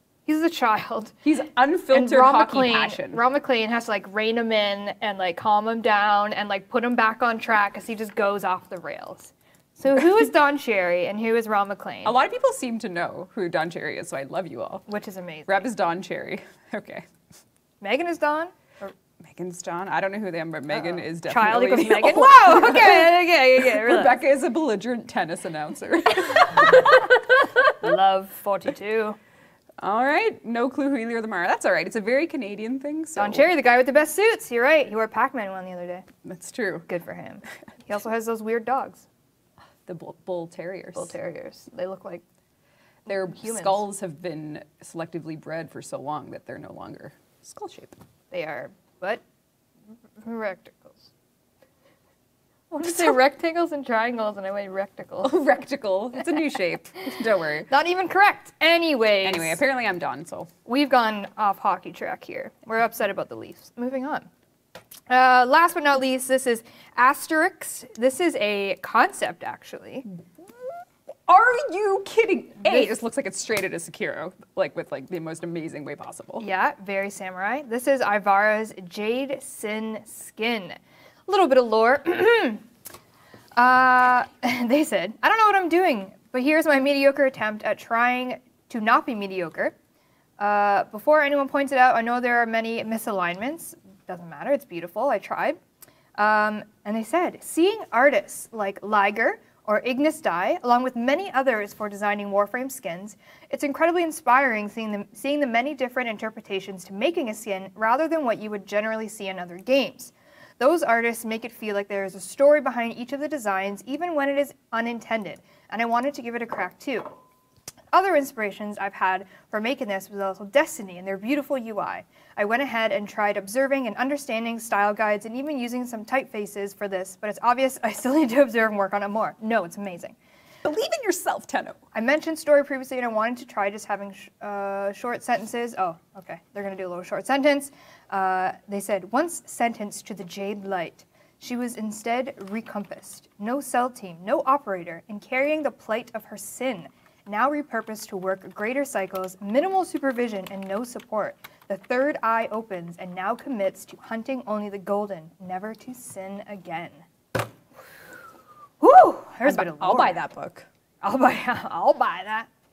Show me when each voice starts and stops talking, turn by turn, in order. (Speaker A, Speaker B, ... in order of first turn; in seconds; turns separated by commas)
Speaker A: 0.2-1.1, Speaker B: 1.2-3.2, Speaker A: 1.9-12.2, Speaker B: 12.0-14.8, Speaker A: 14.9-15.7, Speaker B: 15.5-17.1, Speaker A: 17.8-18.9, Speaker B: 19.2-27.5, Speaker A: 20.7-24.2, Speaker A: 27.7-29.2, Speaker B: 29.8-33.5, Speaker A: 33.1-36.1, Speaker B: 36.2-36.9, Speaker A: 36.9-39.0, Speaker B: 39.9-41.1, Speaker A: 40.9-42.2, Speaker A: 43.0-43.9, Speaker B: 43.1-48.0, Speaker A: 48.3-49.2, Speaker A: 50.2-51.1, Speaker A: 52.7-55.4, Speaker B: 52.8-53.1, Speaker B: 55.2-57.7, Speaker A: 57.7-59.6, Speaker B: 59.2-60.5, Speaker A: 60.6-64.3, Speaker A: 65.1-70.1, Speaker B: 71.3-76.5, Speaker A: 72.6-72.9, Speaker A: 76.4-82.6, Speaker A: 83.5-89.7, Speaker A: 90.4-95.6, Speaker A: 96.2-117.1, Speaker A: 117.9-130.2, Speaker B: 130.6-131.8, Speaker A: 131.9-157.0, Speaker A: 158.8-160.2, Speaker B: 159.4-160.7, Speaker A: 161.0-162.5